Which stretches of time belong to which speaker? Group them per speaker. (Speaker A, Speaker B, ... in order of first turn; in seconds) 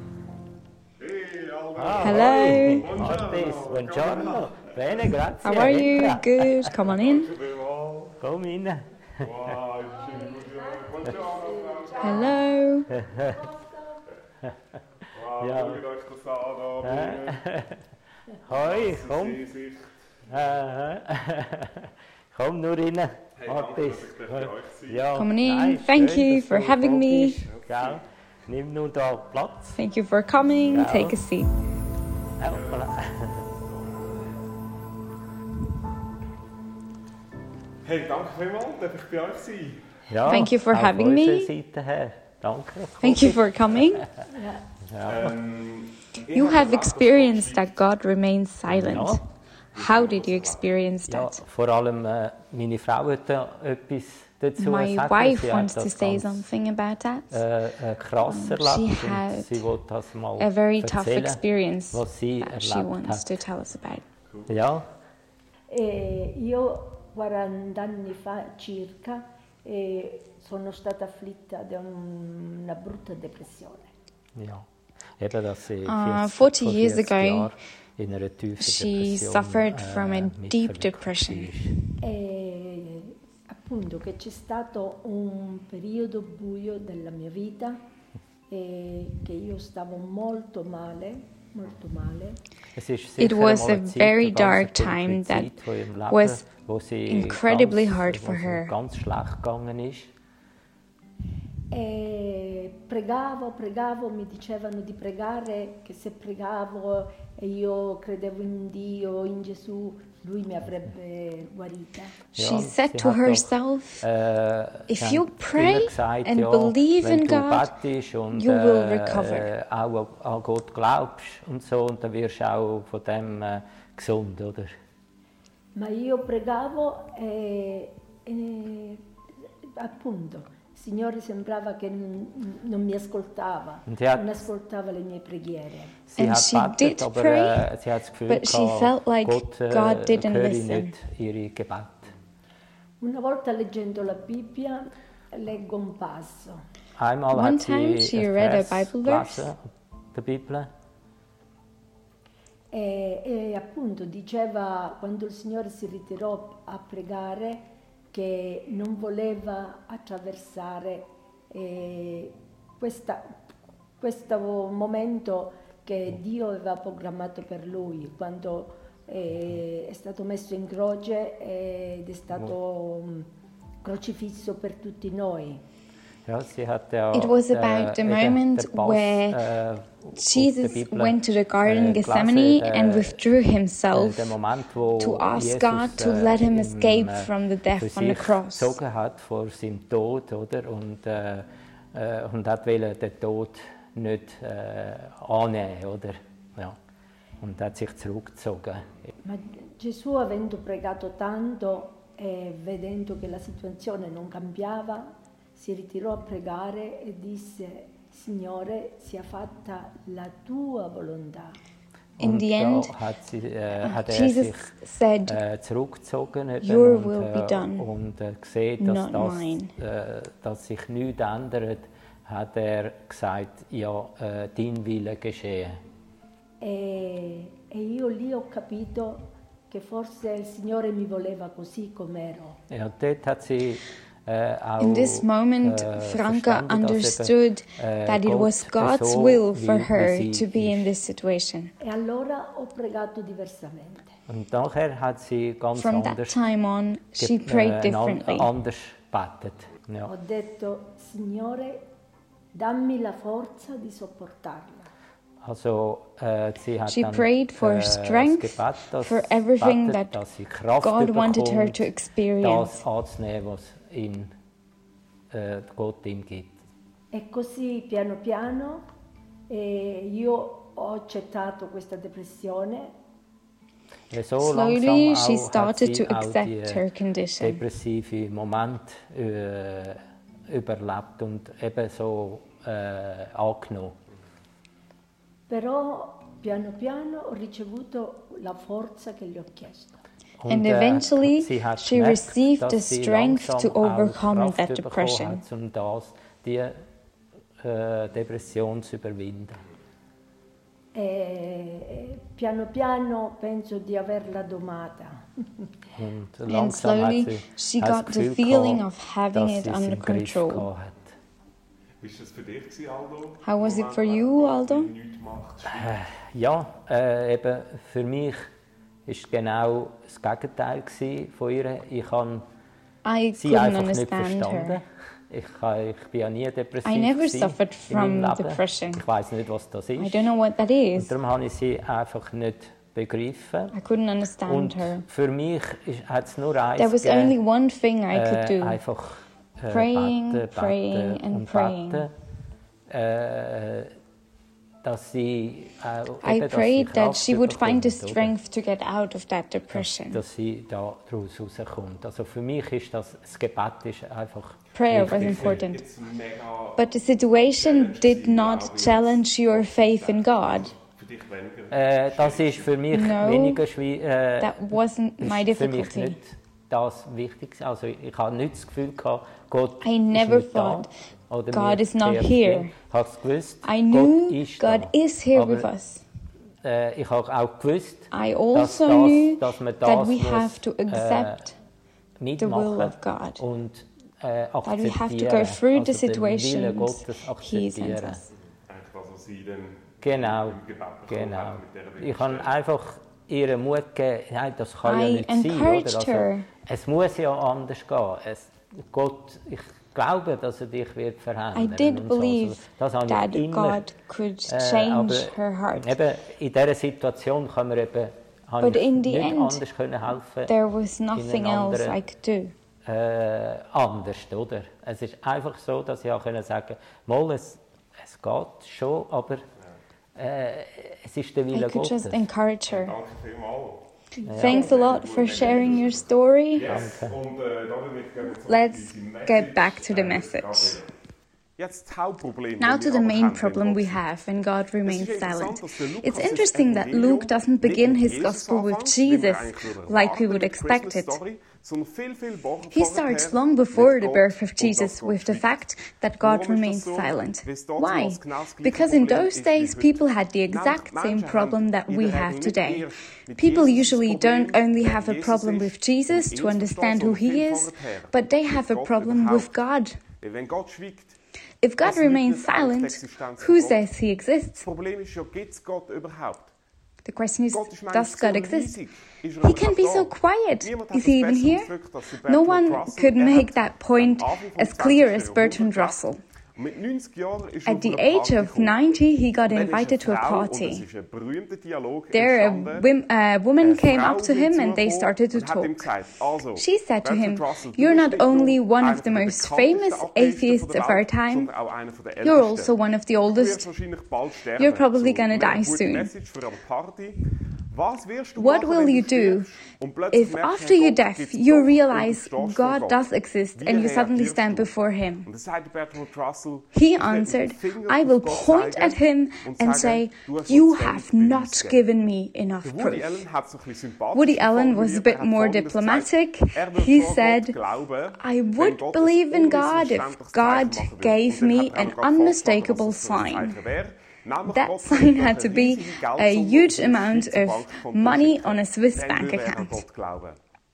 Speaker A: 1.0-5.7, 6.9-8.2, 9.2-12.4, 15.1-17.4, 18.5-20.6, 23.4-25.1, 27.5-28.0, 32.5-34.0, 37.8-39.9, 45.0-47.7, 49.7-50.7, 312.0-315.9, 354.9-356.8, 357.4-362.9, 388.7-392.5, 422.7-423.9, 424.4-430.9, 431.6-434.0, 434.8-445.6, 446.2-459.5, 460.1-461.1, 461.8-463.8, 464.6-466.5, 467.5-476.0, 476.6-478.9, 479.5-482.9, 483.6-492.7, 493.3-497.2, 497.7-503.0, 503.6-504.7, 505.2-511.8, 512.6-530.4
Speaker B: 1.8-6.8, 8.2-9.5, 12.9-13.4, 15.4-15.8, 16.8-17.8, 18.4-19.4, 20.3-29.8, 30.7-31.2, 32.4-33.4, 40.1-44.0, 44.9-45.3, 48.7-49.2, 51.1-56.4, 57.3-63.4, 64.5-64.9, 74.3-74.7, 75.2-81.7, 92.7-100.1, 112.4-124.7, 133.9-134.4, 136.1-142.1, 147.0-150.7, 176.2-183.2, 183.9-196.8, 197.4-199.1, 212.2-225.8, 232.7-240.9, 244.3-246.4, 247.2-250.1, 255.4-261.9, 262.4-264.3, 265.3-266.5, 274.1-276.8, 277.4-283.9, 290.4-296.8, 297.6-299.6, 305.9-311.0, 315.6-318.5, 319.1-322.4, 323.4-330.3, 330.9-333.8, 334.4-337.4, 338.1-342.1, 342.9-343.9, 344.8-348.4, 349.7-355.6, 361.7-375.7, 376.6-381.4, 382.2-388.2, 390.0-403.8, 404.5-410.5, 411.1-412.0, 412.9-419.4, 420.1-422.2, 424.3-424.6, 426.6-427.2
Speaker C: 2.0-2.9, 5.4-7.3, 12.0-12.9, 25.1-27.4, 29.8-31.5, 40.2-41.5, 43.0-44.0, 46.3-49.2, 49.7-51.4, 54.6-57.4, 58.2-59.7, 60.4-64.0, 75.8-77.5, 78.6-81.8, 93.2-95.5, 96.1-96.5, 97.1-98.7, 112.3-114.0, 114.9-117.7, 118.3-119.5, 136.2-137.7, 138.3-140.9, 147.3-149.5, 177.1-179.4, 180.2-184.4, 185.0-188.8, 212.2-212.9, 213.8-215.4, 216.6-217.8, 218.8-219.7, 234.8-241.7, 245.7-248.5, 256.9-260.2, 260.8-262.8, 274.4-277.6, 290.5-295.4, 306.5-310.7, 313.4-314.9, 323.0-324.8, 326.8-329.0, 330.0-331.1, 333.7-335.0, 336.8-338.8, 339.7-342.1, 346.2-350.2, 354.7-355.8, 356.8-360.7, 362.9-363.6, 364.4-366.1, 369.8-370.9, 371.5-372.7, 373.6-376.0, 378.1-381.5, 382.4-383.4, 384.6-388.2, 394.8-396.5, 401.5-405.9, 408.6-409.6, 410.5-412.5, 421.5-422.9, 424.4-426.8, 428.5-430.8, 432.6-441.2, 442.7-452.9, 453.4-460.0, 461.6-464.6, 467.0-468.7, 469.4-471.7, 472.2-476.2, 477.6-480.8, 482.1-485.9, 486.6-491.5, 492.2-493.7, 494.6-496.1, 498.4-499.5, 500.1-505.3, 506.7-513.2, 514.1-517.5, 518.2-523.6, 524.5-529.8
Speaker D: 44.3-44.6, 65.7-73.9, 82.0-87.8, 88.5-92.4, 101.7-112.2, 125.7-129.0, 129.8-136.0, 143.0-146.6, 152.7-163.3, 164.0-173.3, 173.8-175.6, 199.2-211.6, 226.6-232.6, 241.8-244.1, 250.0-251.8, 252.5-254.9, 267.1-268.8, 269.5-272.9, 285.5-290.0, 300.9-305.2, 424.1-425.0